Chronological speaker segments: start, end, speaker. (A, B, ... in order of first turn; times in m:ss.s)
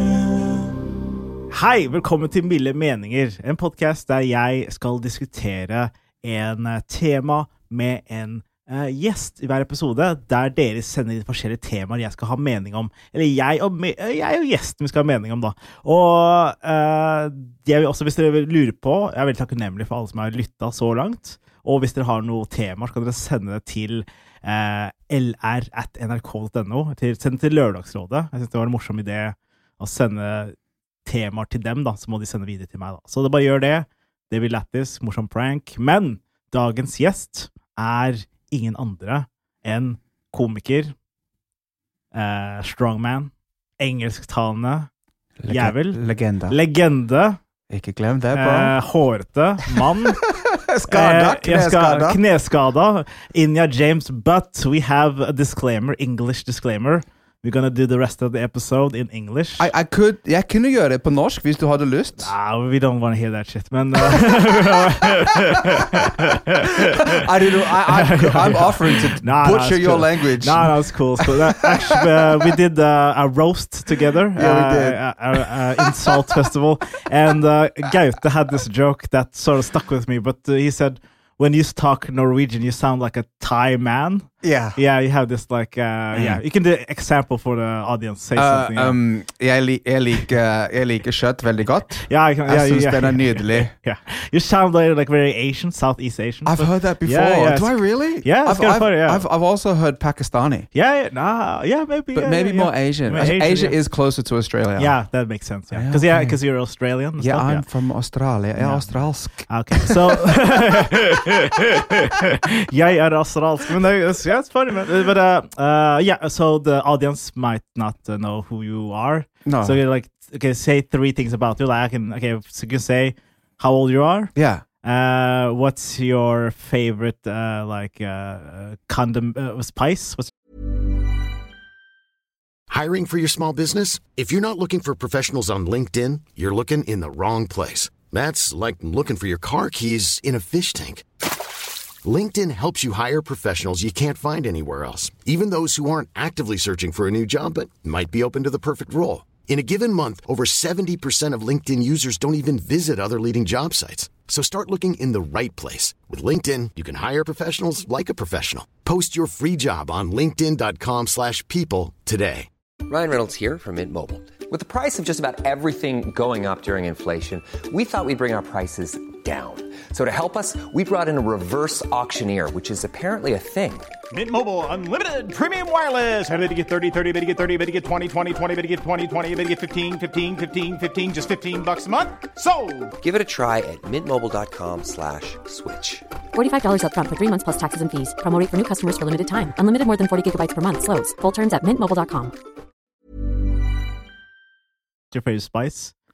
0:01.5-0:40.9 A
0:42.1-0:44.9 A
0:45.4-0:46.6 B
0:45.5-0:47.4 A
0:47.7-0:48.7 B
0:48.3-0:50.2 A
0:49.7-0:52.2 B
0:50.9-0:59.7 A
0:59.6-1:02.3 B
1:02.2-1:07.2 A
1:04.0-1:12.5 B
1:07.8-1:29.0 A
1:14.4-1:16.5 B
1:24.4-1:24.8 B
1:26.1-1:26.4 B
1:28.4-1:33.7 B
1:32.0-1:39.2 A
1:36.4-1:40.7 B
1:40.7-1:43.8 A
1:42.1-1:44.9 B
1:44.8-1:47.6 A
1:45.7-1:46.4 B
1:47.2-1:50.5 B
1:48.6-1:48.9 A
1:49.5-2:04.3 A
1:59.4-1:59.8 B
2:04.3-2:04.6 B
2:04.8-2:10.3 A
2:12.7-2:21.0 C
2:22.0-2:42.5 C
2:42.9-2:53.9 D
2:54.1-3:02.9 E
3:03.0-3:06.0 D
3:06.3-3:12.3 F
3:15.1-3:15.9 A